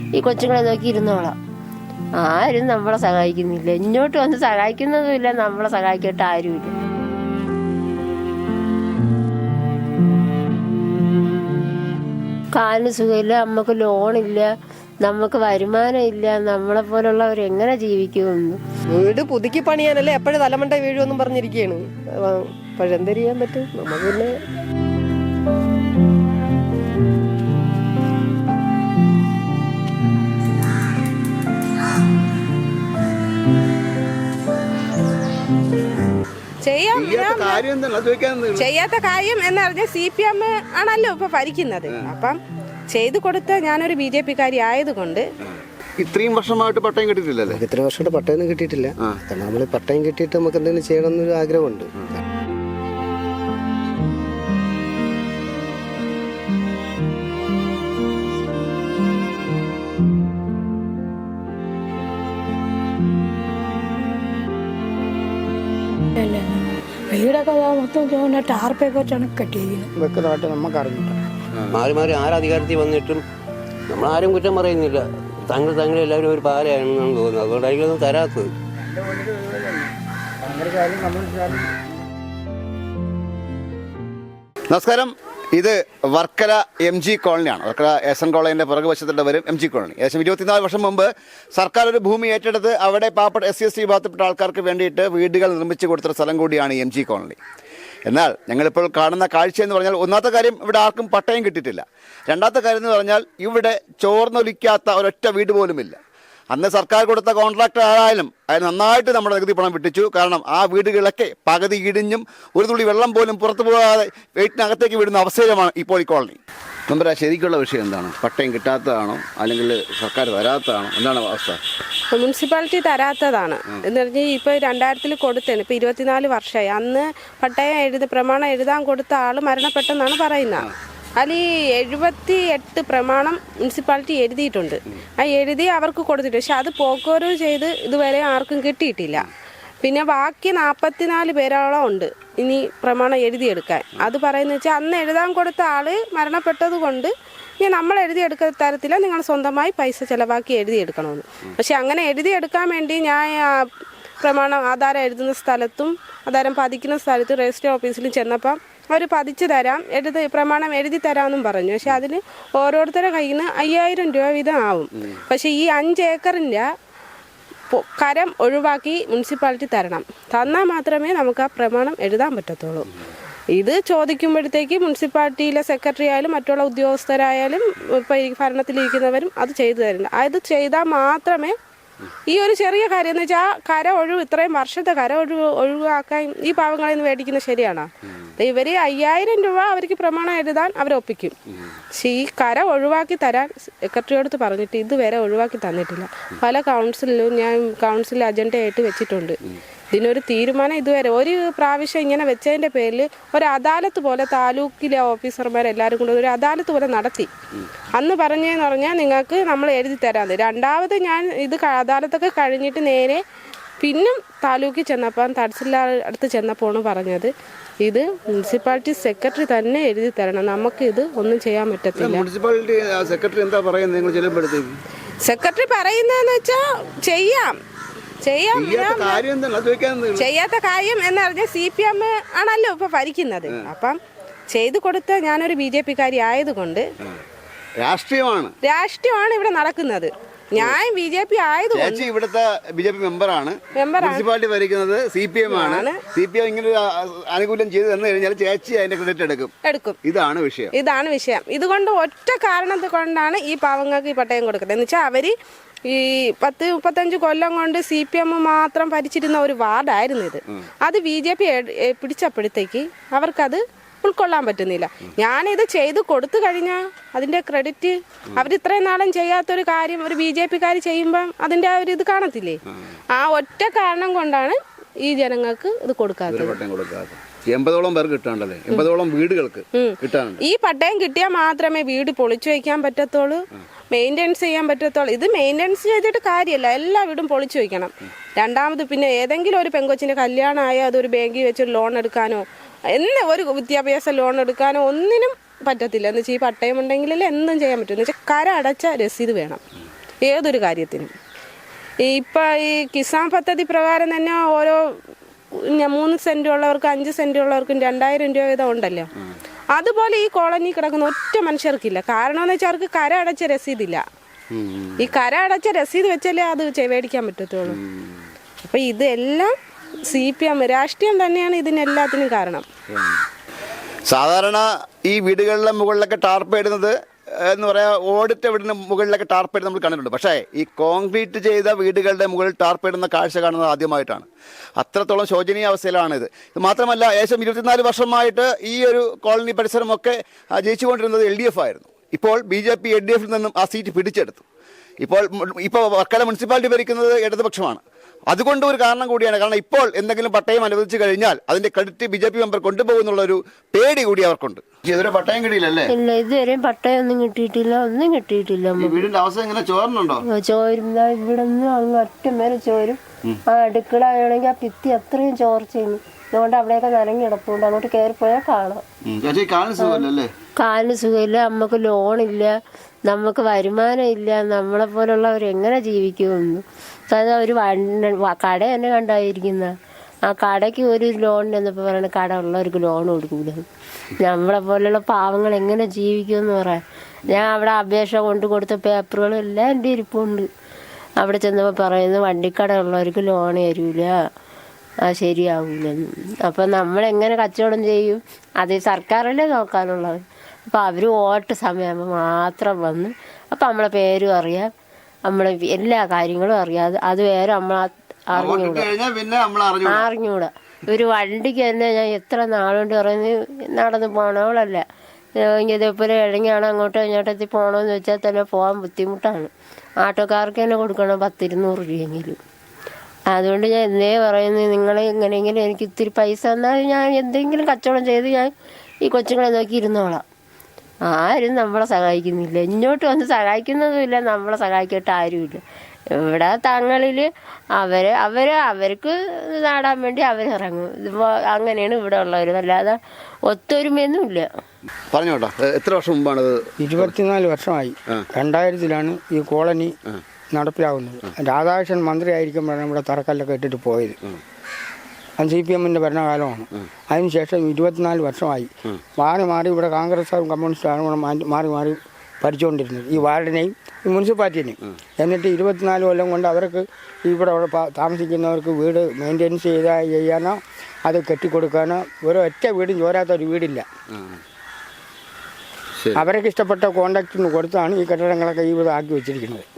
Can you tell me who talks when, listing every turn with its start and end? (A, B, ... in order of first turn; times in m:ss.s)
0:00.2-0:01.4 A
0:02.2-0:06.7 A
0:12.6-0:14.5 A
0:15.0-0:18.6 A
0:19.0-0:21.8 B
0:22.3-0:24.3 B
0:36.7-0:37.6 C
0:36.9-0:38.7 D
0:38.6-0:42.4 C
0:42.9-0:45.3 C
0:46.0-0:47.6 D
0:47.5-0:52.2 E
1:06.2-1:09.9 F
1:10.0-1:11.2 G
1:11.5-1:11.8 D
1:11.7-1:13.2 H
1:13.9-1:18.5 H
1:18.9-1:19.9 G
1:20.4-1:21.7 G
1:24.7-1:37.4 D
1:38.1-1:46.0 D
1:46.5-1:56.4 D
1:56.9-2:01.6 D
2:02.1-2:10.7 C
2:11.2-2:19.3 C
2:19.8-2:33.6 C
2:34.2-2:46.7 C
2:47.7-2:52.9 C
2:53.6-3:01.6 C
3:02.3-3:11.3 C
3:12.0-3:19.4 C
3:19.9-3:27.3 C
3:28.0-3:33.2 C
3:33.8-3:37.3 C
3:37.8-3:42.3 C
3:42.0-3:44.8 D
3:45.2-3:47.5 C
3:48.2-3:49.2 C
3:48.5-3:50.3 D
3:50.2-3:54.0 C
3:54.5-3:56.9 C
3:57.8-3:58.5 D
3:58.6-4:02.0 C
4:01.7-4:09.5 D
4:03.8-4:04.3 C
4:05.5-4:06.0 C
4:09.7-4:10.0 C
4:10.0-4:10.7 D
4:10.8-4:15.3 C
4:15.9-4:32.6 C
4:33.2-4:36.6 C
4:36.3-4:40.4 D
4:39.8-4:43.4 C
4:43.9-4:52.4 C
4:53.0-4:59.6 C
5:00.2-5:01.1 C
5:02.0-5:04.8 C
5:05.7-5:09.1 C
5:09.8-5:14.0 C
5:14.5-5:15.1 D
5:15.0-5:17.8 C
5:17.7-5:18.2 D
5:18.6-5:19.5 C
5:20.1-5:22.7 C
5:22.9-5:23.2 D
5:24.1-5:34.3 D
5:34.8-5:44.4 D
5:45.0-5:55.9 D
5:55.9-5:59.1 A
5:58.8-6:00.2 D
6:00.3-6:08.8 A
6:09.1-6:10.3 D
6:09.8-6:10.0 A
6:10.6-6:12.6 A
6:13.1-6:19.7 A
6:20.3-6:23.6 A
6:24.2-6:30.5 A
6:31.2-6:34.1 A
6:35.1-6:44.7 A
6:45.3-6:48.9 A
6:48.3-6:50.1 D
6:49.9-6:54.8 A
6:55.4-6:59.5 A
7:00.0-7:02.4 A
7:03.3-7:08.5 A
7:09.0-7:10.2 A
7:11.1-7:15.6 A
7:16.2-7:24.5 A
7:25.1-7:27.2 D
7:26.8-7:30.0 G
7:30.5-7:34.2 G
7:35.4-7:53.9 G
7:54.1-7:54.4 D
7:56.0-7:56.3 D
7:56.2-7:59.7 G